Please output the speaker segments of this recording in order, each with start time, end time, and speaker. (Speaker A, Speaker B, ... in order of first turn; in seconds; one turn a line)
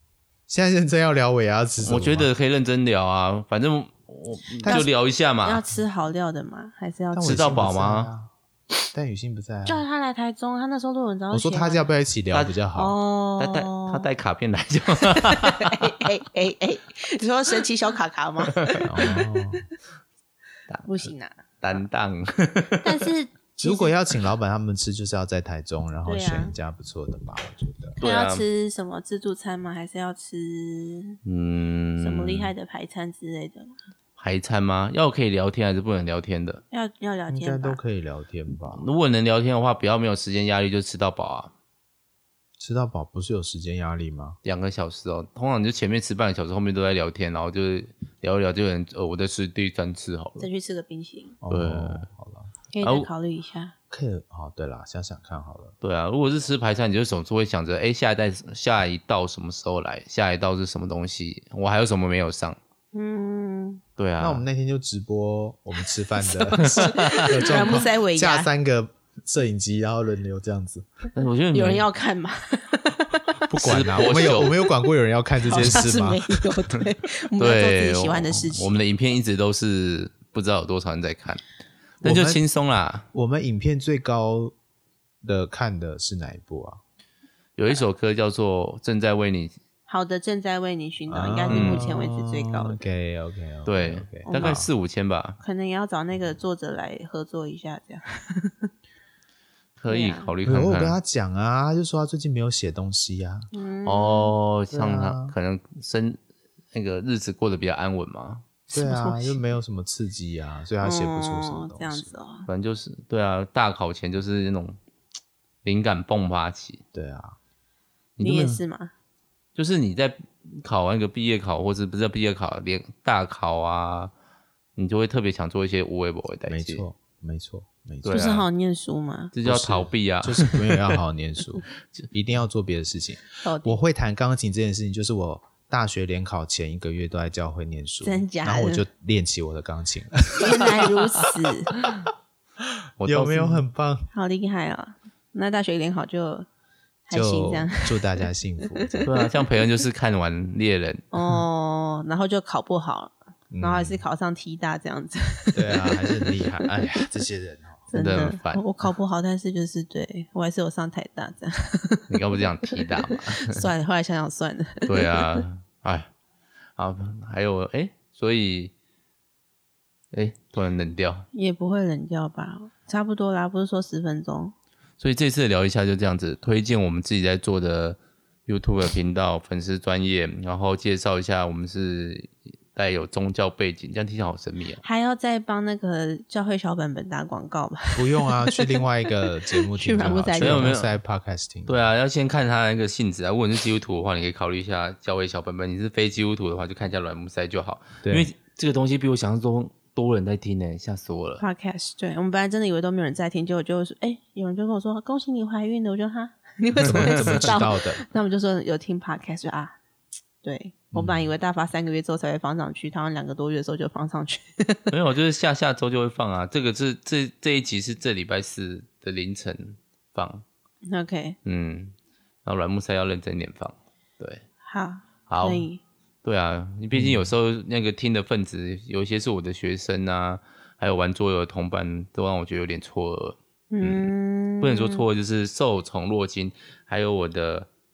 Speaker A: 0.5-2.3
Speaker B: 1.8-5.6
Speaker A: 4.6-4.9
Speaker C: 4.7-7.7
Speaker A: 7.1-8.3
Speaker B: 7.2-8.1
Speaker A: 8.9-9.8
Speaker C: 9.6-11.9
Speaker A: 11.3-12.9
Speaker B: 12.3-12.6
Speaker C: 12.7-14.1
Speaker B: 13.4-15.8
Speaker C: 15.1-19.6
Speaker A: 18.8-19.6
Speaker B: 20.7-23.0
Speaker C: 20.9-21.8
Speaker C: 22.8-23.9
Speaker A: 23.6-28.0
Speaker C: 26.0-26.5
Speaker C: 28.0-31.2
Speaker B: 28.0-28.4
Speaker B: 31.2-32.5
Speaker C: 32.0-33.7
Speaker B: 34.2-36.6
Speaker C: 36.7-37.8
Speaker A: 37.3-38.9
Speaker B: 38.7-41.5
Speaker A: 42.6-44.4
Speaker B: 44.4-50.5
Speaker C: 50.4-51.4
Speaker A: 51.4-52.5
Speaker B: 51.5-52.1
Speaker C: 52.7-53.7
Speaker B: 52.8-53.1
Speaker A: 53.9-55.7
Speaker B: 55.8-62.6
Speaker C: 62.9-63.8
Speaker B: 64.0-64.4
Speaker A: 64.2-70.8
Speaker C: 66.2-68.5
Speaker B: 66.9-67.6
Speaker B: 71.1-71.8
Speaker C: 71.5-73.4
Speaker A: 73.5-76.2
Speaker B: 73.6-74.5
Speaker C: 74.0-74.7
Speaker C: 75.4-78.8
Speaker B: 77.3-81.4
Speaker A: 82.0-82.4
Speaker B: 82.0-83.0
Speaker A: 83.1-84.5
Speaker A: 85.2-86.8
Speaker B: 87.6-89.5
Speaker C: 89.9-92.8
Speaker A: 91.1-94.7
Speaker B: 91.5-91.9
Speaker B: 93.7-95.4
Speaker C: 94.2-94.6
Speaker C: 95.4-98.7
Speaker B: 99.8-101.0
Speaker C: 99.9-100.3
Speaker A: 100.4-103.5
Speaker C: 103.5-104.3
Speaker B: 103.8-106.2
Speaker A: 104.7-105.3
Speaker B: 106.7-108.5
Speaker C: 108.7-109.4
Speaker A: 108.7-112.1
Speaker C: 110.8-112.5
Speaker B: 112.5-114.8
Speaker B: 115.6-116.8
Speaker A: 116.9-117.4
Speaker B: 118.2-118.6
Speaker C: 118.2-118.9
Speaker B: 119.5-124.1
Speaker B: 124.8-126.8
Speaker A: 126.5-128.3
Speaker B: 128.0-128.4
Speaker C: 128.1-129.3
Speaker B: 129.3-130.9
Speaker A: 129.4-140.7
Speaker C: 133.4-133.8
Speaker C: 138.0-138.8
Speaker C: 140.3-141.7
Speaker B: 143.0-143.7
Speaker A: 143.0-144.1
Speaker C: 144.1-146.5
Speaker C: 147.1-148.1
Speaker A: 147.1-149.1
Speaker C: 148.7-149.1
Speaker B: 149.0-151.0
Speaker C: 151.1-157.1
Speaker A: 153.5-154.0
Speaker A: 155.5-157.9
Speaker C: 157.9-162.2
Speaker B: 157.9-158.6
Speaker B: 162.1-163.6
Speaker C: 162.7-165.4
Speaker B: 164.8-166.1
Speaker B: 166.8-168.7
Speaker B: 170.1-171.2
Speaker C: 171.3-174.5
Speaker B: 175.0-184.8
Speaker C: 184.8-188.8
Speaker A: 187.9-191.9
Speaker C: 189.7-190.8
Speaker B: 190.4-190.9
Speaker B: 191.7-201.4
Speaker A: 198.0-198.3
Speaker C: 201.4-209.8
Speaker A: 206.8-208.0
Speaker B: 206.9-207.5
Speaker C: 210.4-214.9
Speaker A: 210.9-211.3
Speaker B: 214.9-220.4
Speaker C: 220.9-221.4
Speaker B: 221.4-221.9
Speaker B: 222.4-224.4
Speaker C: 224.6-225.8
Speaker B: 225.3-225.7
Speaker B: 226.2-237.7
Speaker A: 226.9-227.3
Speaker C: 233.7-235.0